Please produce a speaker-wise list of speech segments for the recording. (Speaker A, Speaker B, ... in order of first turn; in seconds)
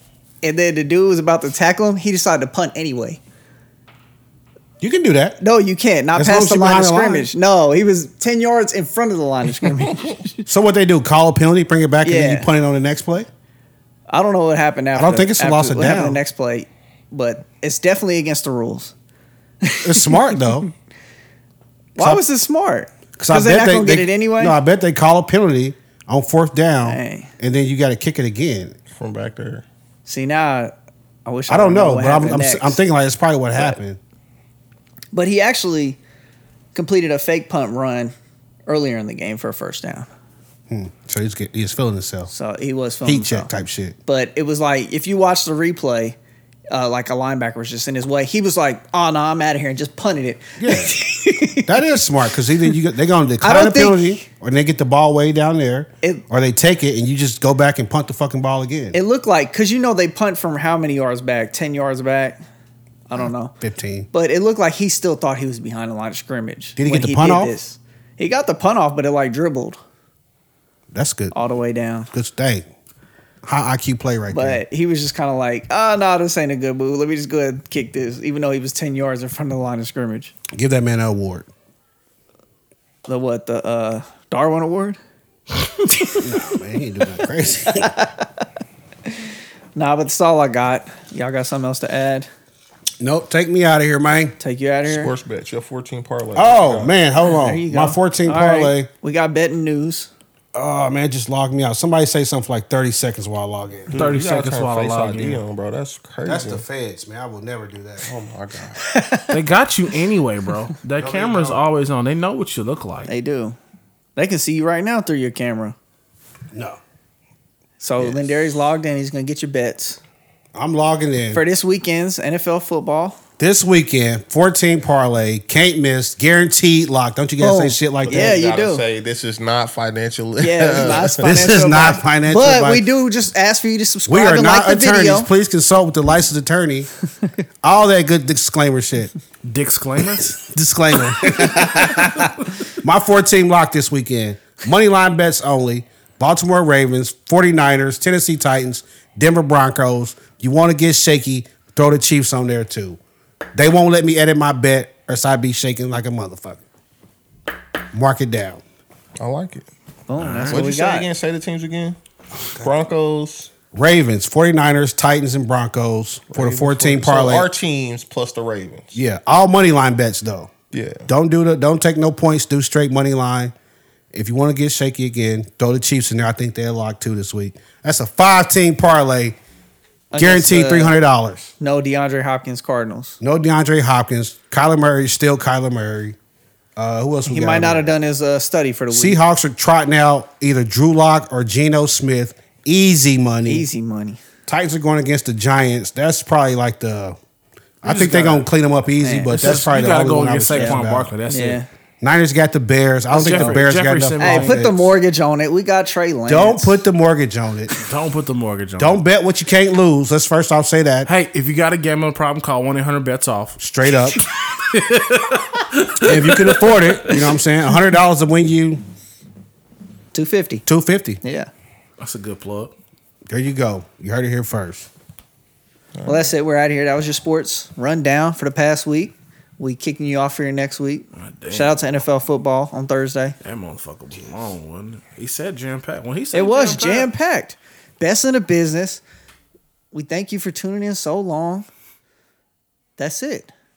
Speaker A: 0.4-3.2, 5.4-10.5, 12.0-12.5, 14.1-18.9, 19.6-20.7, 21.9-24.6, 26.8-27.3, 30.1-30.7, 31.2-32.8, 35.1-36.0, 36.7-38.1, 38.7-40.1, 42.3-43.5, 44.0-46.1, 46.7-51.8, 53.4-54.2, 58.9-62.4, 63.1-63.5, 64.1-69.8, 71.3-72.1, 74.3-80.3, 83.1-85.0, 85.7-86.3, 87.7-88.4, 89.1-92.3, 94.4-95.1, 97.2-100.1, 108.8-109.4, 113.0-113.6, 114.2-115.7, 117.8-120.0, 121.3-123.2, 127.4-128.8, 130.4-135.3, 160.1-161.1, 180.1-181.0, 181.6-183.2, 187.3-189.2, 193.4-194.2, 199.0-199.3, 200.5-201.7, 203.1-203.6, 204.2-206.7, 220.1-220.6, 221.2-221.5, 226.1-233.4, 236.3-239.0, 239.9-241.7, 243.0-243.5
Speaker B: 4.8-5.4, 6.1-7.3, 10.5-13.3, 14.9-16.2, 19.8-20.7, 23.2-28.8, 31.5-34.0, 40.7-42.3, 43.0-44.0, 50.6-51.0, 51.6-59.0, 63.6-64.1, 66.8-67.5, 70.9-71.3, 72.1-72.6, 73.4-74.6, 80.5-81.5, 86.2-87.9, 93.0-94.3, 96.3-98.9, 100.5-104.0, 106.2-108.1, 111.0-111.6, 116.5-116.8, 120.5-121.4, 123.4-128.3, 130.8-132.8, 134.1-136.9, 137.6-139.1, 140.2-153.0, 153.5-156.6, 157.9-158.6, 162.4-162.7, 163.7-167.5, 168.9-170.5, 171.1-173.5, 174.1-179.4, 180.1-181.5, 183.2-186.2, 186.8-187.9, 188.9-193.7, 194.5-197.2, 197.8-201.1, 202.0-204.9, 206.3-207.8, 208.8-211.1, 213.6-214.2, 216.0-218.8, 220.7-221.2, 223.3-224.9
Speaker C: 28.9-29.6, 94.9-97.0, 103.9-106.6, 108.0-108.8, 128.0-131.3, 159.2-159.7, 160.5-162.0, 162.5-163.5, 166.3-169.0, 170.7-171.1, 225.9-226.3
Speaker D: 103.9-105.4, 109.3-113.1, 139.4-140.4, 141.9-142.4, 160.2-160.6, 197.8-198.4, 199.3-201.6, 203.1-204.7, 207.7-209.0, 211.1-217.4, 222.0-222.7, 231.2-231.9, 233.4-237.1